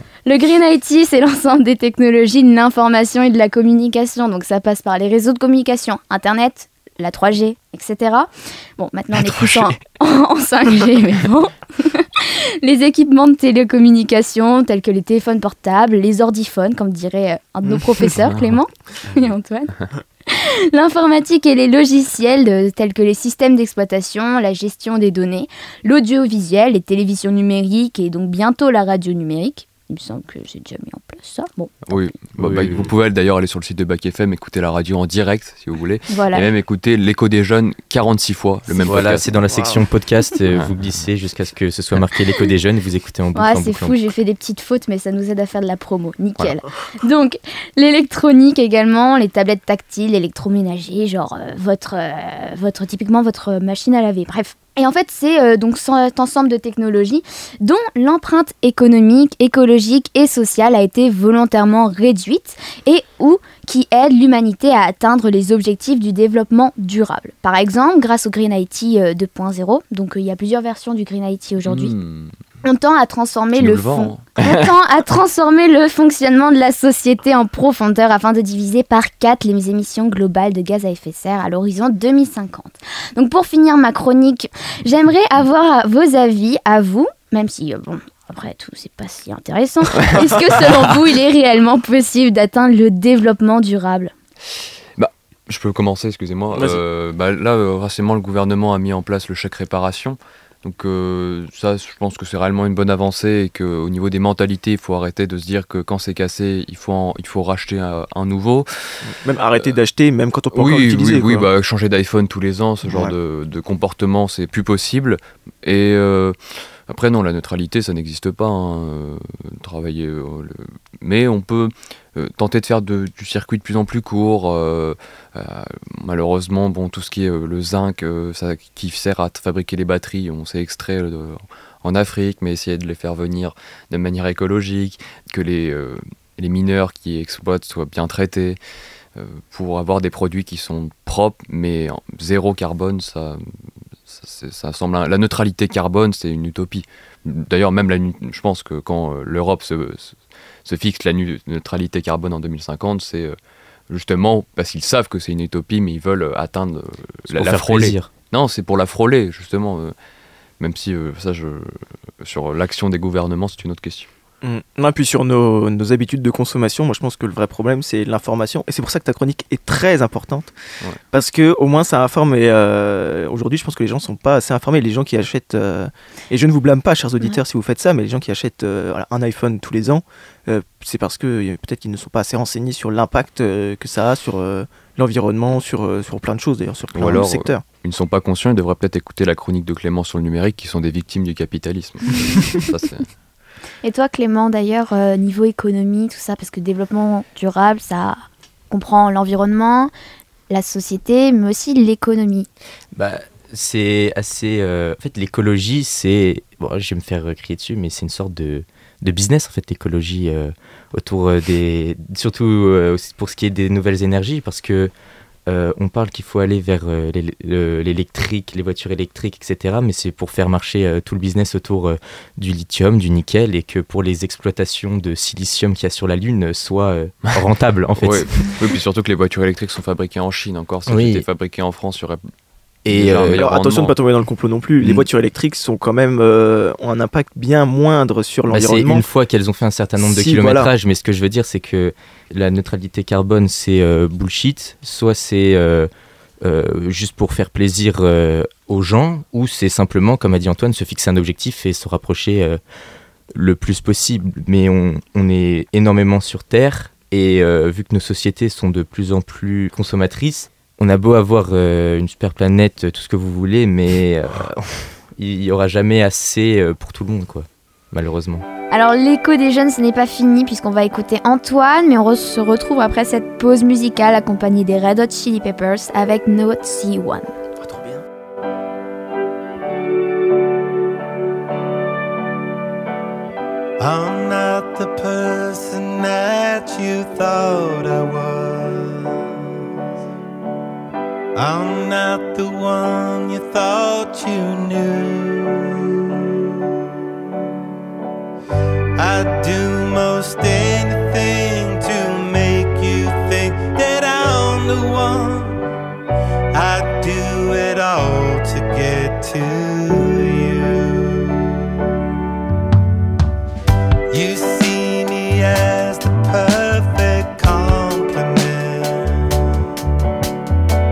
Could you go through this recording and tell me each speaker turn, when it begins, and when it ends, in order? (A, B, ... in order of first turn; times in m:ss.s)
0:00.2-0:19.7 A
0:09.2-0:09.7 B
0:18.2-0:18.6 B
0:20.3-0:31.9 A
0:31.8-0:39.6 B
0:32.4-0:32.9 C
0:36.1-0:36.5 A
0:38.8-0:44.0 C
0:39.5-0:39.8 D
0:43.3-1:11.9 A
1:11.6-1:12.3 B
1:12.6-1:34.1 A
1:13.5-1:14.8 B
1:30.0-1:30.3 B
1:35.0-1:48.7 B
1:36.5-1:36.8 D
1:49.0-1:51.5 D
1:50.5-2:18.6 B
1:52.8-1:53.1 D
2:19.1-2:23.4 B
2:24.1-2:33.4 B
2:33.9-2:39.9 B
2:37.3-2:38.1 C
2:40.6-2:44.1 B
2:44.4-2:50.5 D
2:51.1-3:07.6 D
3:06.9-3:13.1 B
3:13.8-3:19.9 A
3:20.5-3:22.5 A
3:22.9-3:34.9 C
3:35.5-3:48.5 C
3:48.0-3:52.2 B
3:50.9-3:51.2 C
3:52.8-3:53.4 C
3:52.9-3:54.0 B
3:53.1-3:59.0 D
3:54.8-3:55.1 B
3:58.5-4:05.9 C
4:00.0-4:00.7 D
4:06.4-4:12.6 C
4:13.3-4:28.4 C
4:28.7-4:37.3 A
4:37.6-4:38.0 D
4:43.8-4:49.6 E
4:51.3-4:56.4 E
4:59.0-5:05.6 E
5:06.5-5:11.8 E
5:14.1-5:19.6 E